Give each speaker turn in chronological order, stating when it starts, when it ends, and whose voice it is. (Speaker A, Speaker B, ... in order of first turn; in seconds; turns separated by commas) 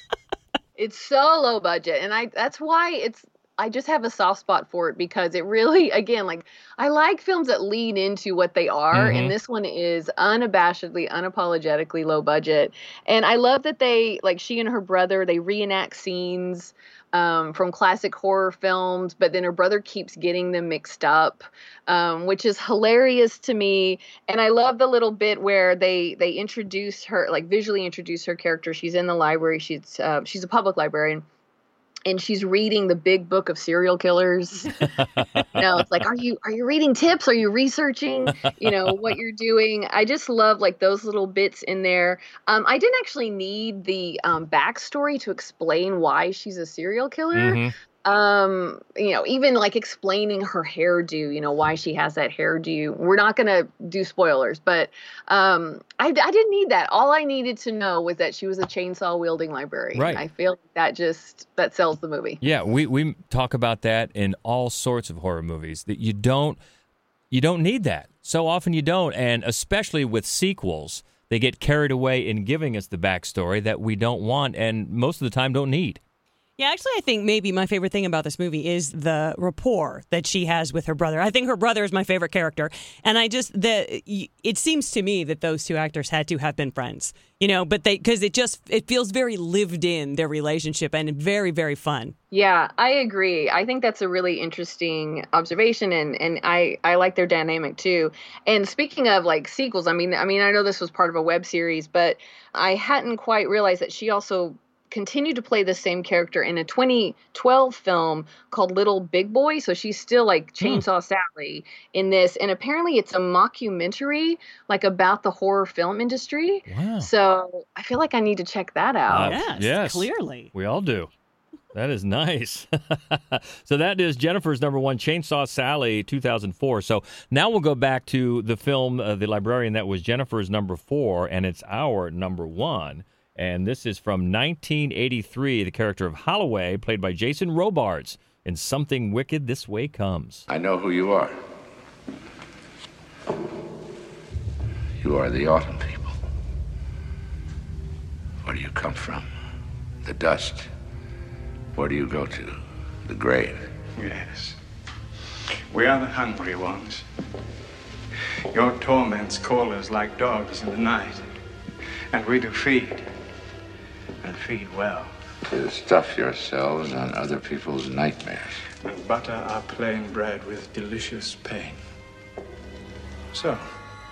Speaker A: 0.8-31.2, Speaker B: 8.9-9.3, Speaker A: 32.1-34.7, Speaker B: 34.9-35.4, Speaker A: 35.5-62.4, Speaker B: 38.4-39.1, Speaker B: 47.3-47.7, Speaker B: 59.9-60.2, Speaker B: 62.4-66.6, Speaker B: 67.3-76.0, Speaker C: 76.6-92.1, Speaker A: 92.3-119.4, Speaker B: 116.7-117.1, Speaker B: 119.1-121.1, Speaker C: 119.2-120.5, Speaker B: 121.7-140.5, Speaker D: 140.5-141.3, Speaker D: 145.0-146.2, Speaker D: 148.4-149.3, Speaker D: 150.0-150.7, Speaker D: 151.7-153.7, Speaker E: 153.9-154.6, Speaker E: 155.7-157.1, Speaker E: 158.5-161.3, Speaker E: 162.1-163.1, Speaker E: 164.2-165.1, Speaker D: 165.5-168.5, Speaker E: 168.8-171.8, Speaker E: 173.3-173.8